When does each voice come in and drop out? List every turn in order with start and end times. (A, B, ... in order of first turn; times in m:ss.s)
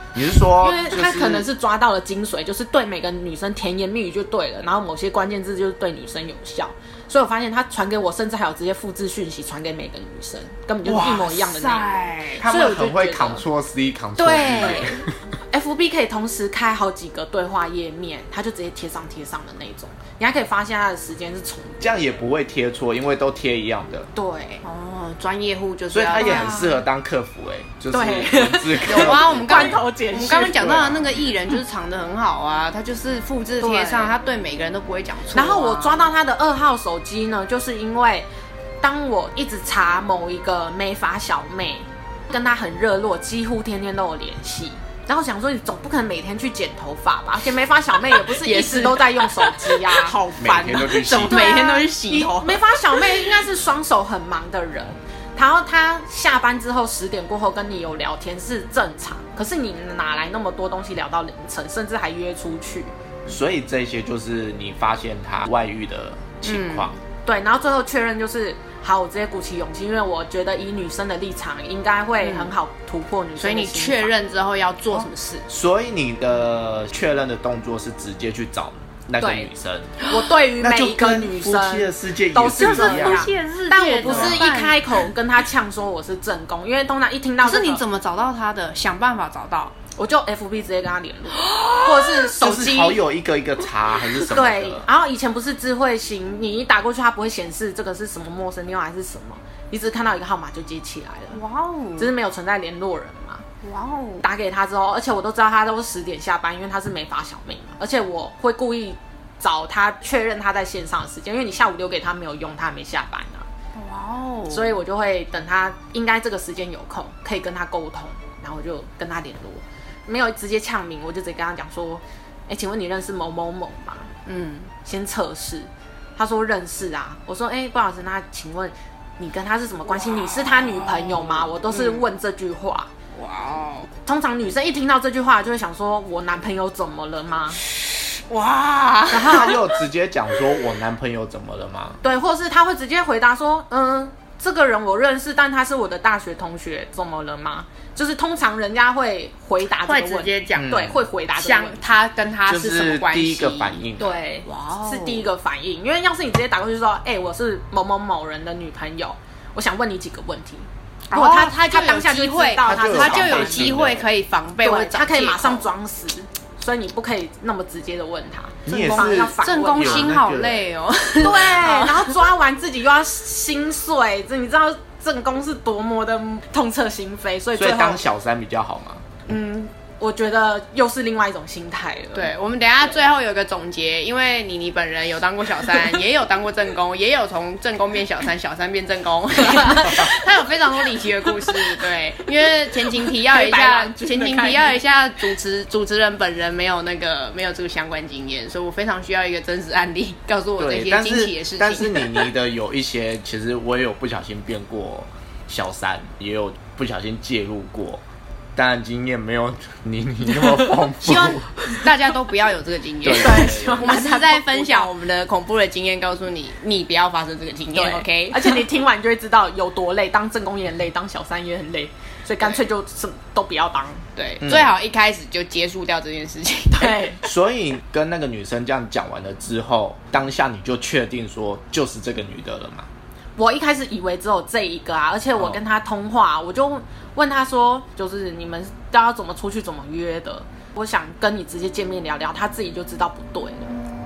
0:00.1-0:01.5 A
0:00.6-0:13.4 B
0:10.8-0:11.4 A
0:11.3-0:12.4 C
0:12.4-0:15.1 A
0:14.2-0:22.3 B
0:14.3-0:14.9 C
0:21.8-0:24.1 A
0:24.1-0:24.6 B
0:24.6-0:26.8 C
0:25.9-0:29.8 A
0:26.2-0:26.8 B
0:27.9-0:31.0 B
0:28.9-0:36.1 C
0:30.6-0:31.1 A
0:33.6-0:34.1 B
0:35.3-0:38.3 B
0:38.8-0:50.2 B
0:48.1-0:53.4 C
0:50.4-0:51.5 A
0:51.3-1:02.9 B
1:03.3-1:07.0 A
1:06.4-1:06.9 C
1:07.2-1:14.1 B
1:12.2-1:12.5 C
1:13.4-1:15.5 C
1:15.5-1:19.9 A
1:19.2-1:19.5 C
1:20.1-1:27.8 B
1:20.6-1:23.2 A
1:22.6-1:25.0 C
1:24.0-1:24.4 A
1:27.4-1:29.7 C
1:30.0-1:33.0 B
1:31.4-1:32.3 C
1:32.4-1:34.9 A
1:34.3-1:41.4 B
1:41.3-1:42.1 C
1:42.0-1:43.4 B
1:43.6-1:44.2 C
1:44.2-1:53.5 B
1:53.8-1:54.8 C
1:54.5-2:04.1 B
2:04.3-2:04.7 C
2:04.8-2:12.9 B
2:10.8-2:11.2 C
2:11.7-2:12.1 C
2:13.2-2:13.9 C
2:14.0-2:17.6 B
2:17.8-2:19.7 C
2:19.1-2:19.6 B
2:19.3-2:22.0 A
2:22.0-2:31.8 B
2:29.7-2:30.7 C
2:30.6-2:31.0 A
2:31.4-2:33.8 C
2:32.5-2:34.2 A
2:34.0-2:43.8 B
2:34.5-2:35.3 C
2:41.1-2:45.6 C
2:42.6-2:44.1 A
2:44.6-2:50.2 B
2:48.7-2:50.6 A
2:48.7-2:52.2 C
2:51.2-2:58.0 B
2:57.6-2:59.1 A
2:59.3-3:02.3 B
3:02.1-3:22.3 C
3:09.6-3:10.0 B
3:13.2-3:14.8 B
3:20.6-3:28.0 A
3:28.6-3:31.5 A
3:31.0-3:38.7 C
3:33.0-3:33.9 A
3:33.2-3:34.9 B
3:37.7-3:44.1 B
3:44.2-3:47.2 C
3:44.4-3:44.7 A
3:46.8-3:47.2 B
3:47.2-3:52.9 A
3:53.4-4:03.8 B